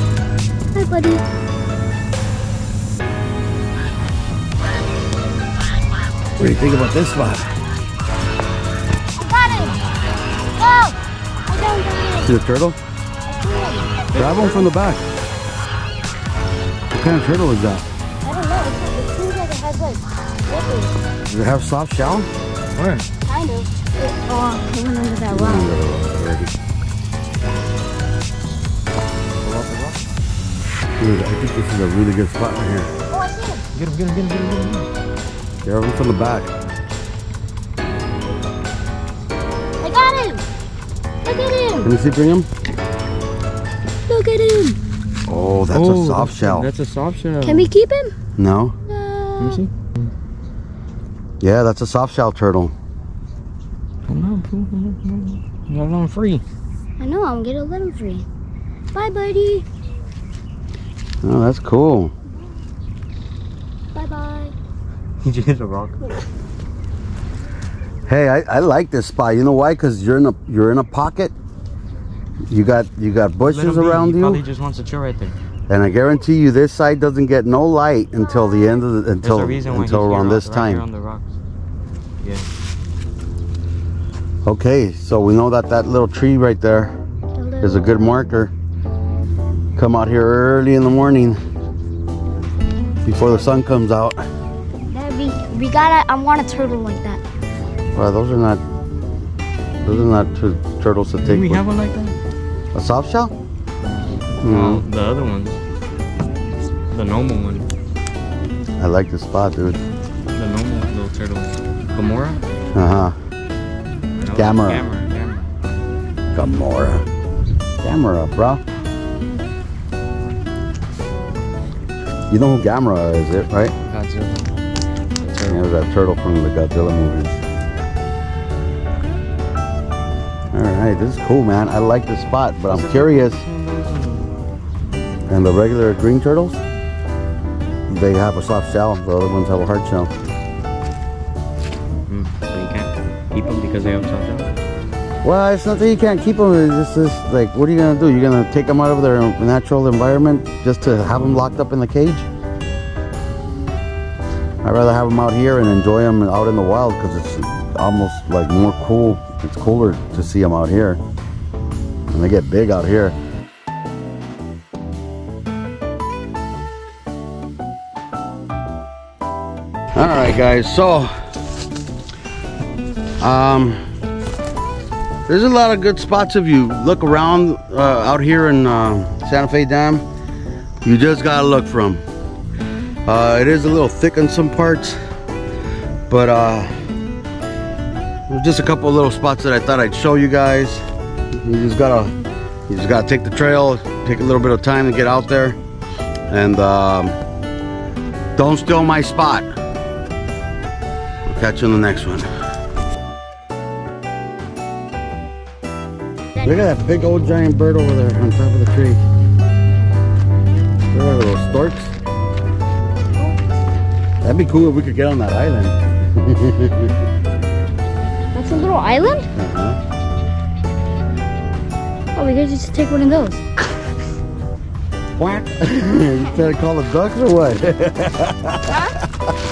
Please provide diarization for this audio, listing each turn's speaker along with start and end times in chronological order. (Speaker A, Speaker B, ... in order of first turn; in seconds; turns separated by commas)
Speaker A: 0.7-1.2, Speaker B: 6.4-7.6, Speaker A: 9.2-9.8, Speaker A: 10.6-12.3, Speaker B: 12.2-12.8, Speaker A: 13.3-14.1, Speaker C: 14.1-14.7, Speaker B: 14.1-15.0, Speaker B: 16.9-17.9, Speaker A: 18.2-21.0, Speaker B: 21.2-22.3, Speaker C: 22.7-23.1, Speaker A: 23.2-25.7, Speaker B: 25.3-26.5, Speaker C: 29.4-30.0, Speaker B: 31.0-32.9, Speaker A: 33.1-33.6, Speaker C: 33.7-34.9, Speaker B: 35.6-36.5, Speaker A: 39.8-40.5, Speaker A: 41.2-41.9, Speaker B: 41.8-42.5, Speaker A: 44.1-44.8, Speaker B: 45.3-46.7, Speaker C: 45.7-47.7, Speaker A: 47.4-48.1, Speaker B: 48.4-48.8, Speaker A: 48.9-49.6, Speaker C: 49.4-50.1, Speaker B: 51.4-52.7, Speaker C: 54.1-56.4, Speaker A: 57.0-58.3, Speaker A: 58.9-59.7, Speaker B: 61.2-62.1, Speaker A: 64.0-64.5, Speaker C: 65.2-66.2, Speaker B: 68.1-71.3, Speaker B: 72.5-74.4, Speaker C: 73.4-75.4, Speaker B: 75.7-80.8, Speaker A: 78.1-78.9, Speaker C: 79.2-81.3, Speaker C: 82.2-82.5, Speaker B: 84.5-86.9, Speaker A: 87.4-88.0, Speaker B: 87.6-88.5, Speaker B: 89.8-91.4, Speaker B: 93.0-94.2, Speaker A: 94.9-97.2, Speaker B: 97.9-98.6, Speaker B: 99.8-101.6, Speaker C: 101.2-102.2, Speaker B: 102.7-103.3, Speaker C: 103.8-105.6, Speaker B: 104.4-104.8, Speaker C: 106.9-107.7, Speaker B: 108.8-109.8, Speaker C: 110.3-112.4, Speaker B: 112.7-113.2, Speaker C: 114.1-115.5, Speaker B: 114.3-114.9, Speaker B: 116.3-117.0, Speaker B: 117.8-118.6, Speaker B: 122.3-123.8, Speaker C: 123.9-124.5, Speaker C: 125.2-125.7, Speaker B: 125.5-127.4, Speaker B: 130.5-133.4, Speaker C: 132.7-134.3, Speaker B: 135.3-136.6, Speaker B: 137.9-140.1, Speaker C: 142.1-144.5, Speaker B: 145.2-152.3, Speaker B: 154.6-161.0, Speaker B: 162.1-163.2, Speaker B: 170.0-171.1, Speaker B: 173.2-173.8, Speaker B: 175.3-180.0, Speaker B: 180.8-182.0, Speaker B: 183.1-185.0, Speaker B: 186.1-186.7, Speaker B: 188.3-190.8, Speaker B: 191.4-192.1, Speaker B: 192.7-195.6, Speaker B: 196.3-197.2, Speaker B: 198.4-199.5, Speaker B: 201.3-202.3, Speaker A: 206.3-207.0, Speaker B: 206.4-209.0, Speaker B: 210.9-211.9, Speaker B: 214.2-216.9, Speaker A: 218.3-219.3, Speaker B: 219.3-219.8, Speaker A: 222.2-223.4, Speaker B: 225.2-228.8, Speaker A: 228.7-229.0